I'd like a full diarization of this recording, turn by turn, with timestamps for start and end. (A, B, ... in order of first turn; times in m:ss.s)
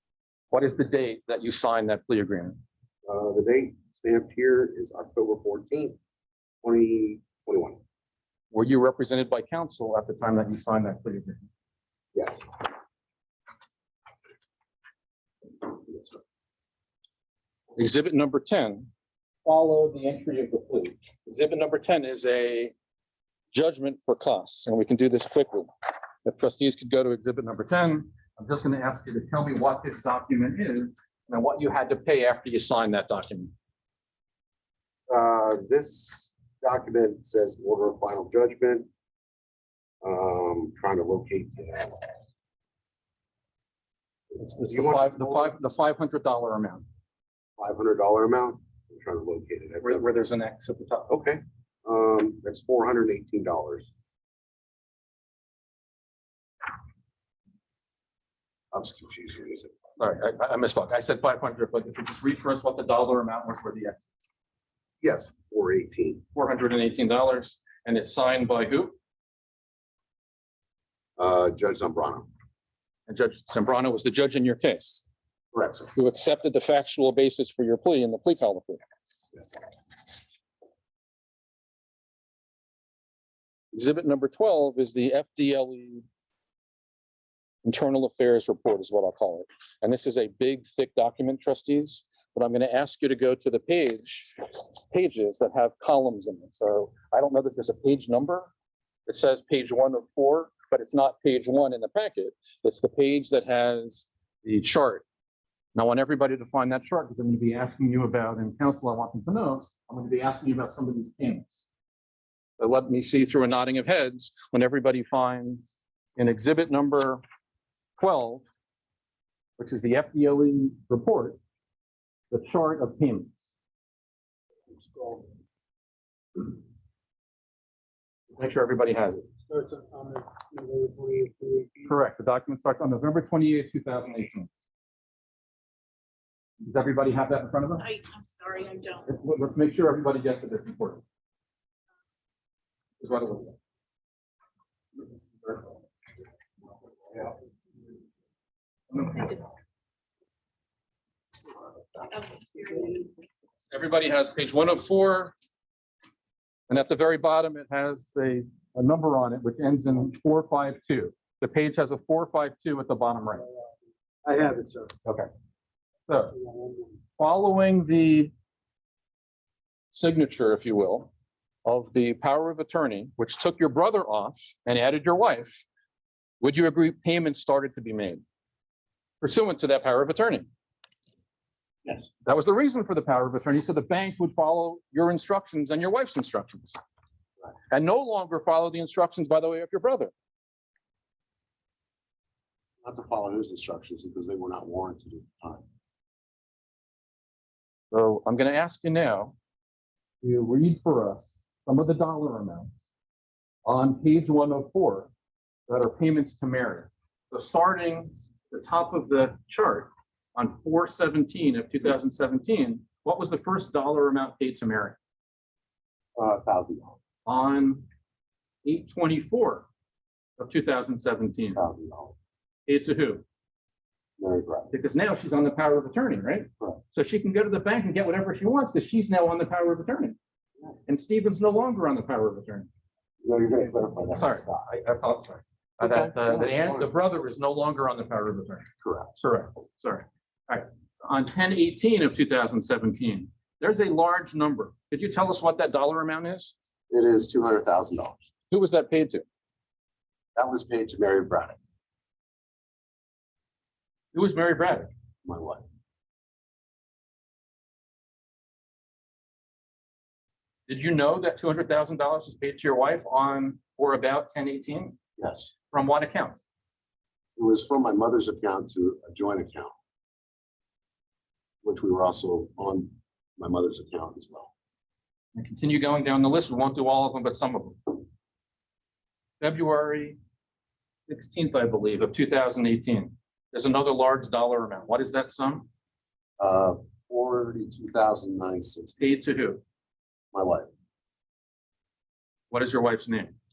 0:00.5-0:02.6 A
0:03.0-0:06.0 B
0:06.6-0:07.8 B
0:08.5-0:11.5 A
0:12.1-0:12.5 B
0:17.8-0:18.9 A
0:19.4-0:22.7 A
0:23.5-0:25.7 A
0:26.2-0:33.5 A
0:35.1-0:38.9 B
0:40.0-0:42.1 B
0:44.4-0:46.8 A
0:44.5-0:45.5 B
0:47.6-0:50.0 B
0:49.8-0:51.1 A
0:51.1-0:53.9 B
0:58.7-0:59.8 B
1:00.0-1:04.1 A
1:05.0-1:06.2 B
1:06.3-1:08.9 A
1:11.2-1:12.3 B
1:13.1-1:15.0 A
1:15.5-1:15.9 B
1:15.9-1:18.8 A
1:23.7-1:26.0 A
1:27.6-1:38.5 A
1:39.1-1:45.0 A
1:45.7-1:51.7 A
1:52.6-1:57.2 A
1:58.0-1:58.4 A
1:59.6-2:01.4 A
2:02.3-2:03.4 A
2:04.7-2:05.3 C
2:08.4-2:09.2 A
2:09.5-2:11.9 C
2:11.9-2:14.5 A
2:16.6-2:17.9 A
2:17.8-2:19.1 D
2:19.1-2:21.0 A
2:23.0-2:23.6 A
2:28.9-2:29.5 A
2:32.1-2:33.1 D
2:33.7-2:35.3 A
2:36.7-2:43.4 A
2:44.2-2:44.9 C
2:46.1-2:46.3 A
2:46.4-2:46.8 C
2:47.2-2:48.3 A
2:49.9-2:51.1 A
2:51.6-2:55.7 A
2:56.4-2:58.2 A
2:59.2-3:00.5 A
3:02.2-3:06.8 A
3:07.7-3:10.1 A
3:12.8-3:15.6 B
3:17.9-3:19.3 A
3:20.2-3:22.7 A
3:23.6-3:25.1 A
3:25.7-3:35.0 A
3:36.2-3:37.0 B
3:37.3-3:37.8 A
3:38.6-3:39.7 A
3:40.4-3:41.6 A
3:41.6-3:42.2 B
3:42.7-3:43.2 A
3:44.2-3:44.7 B
3:44.7-3:50.2 A
3:50.9-3:52.7 A
3:53.2-3:54.6 B
3:54.2-4:06.5 A
3:55.8-3:56.9 B
3:58.8-3:59.2 B
4:06.9-4:08.2 B
4:08.5-4:09.2 A
4:10.4-4:11.6 B
4:14.1-4:14.9 A
4:15.2-4:15.6 B
4:20.7-4:25.0 A
4:25.2-4:25.5 B
4:25.7-4:26.4 A
4:27.4-4:29.7 B
4:31.6-4:34.5 B
4:35.4-4:38.0 A
4:39.4-4:40.2 A
4:41.1-4:45.7 A
4:46.4-4:49.0 B
4:49.0-4:49.6 A
4:50.3-4:50.7 B
4:52.5-4:53.3 A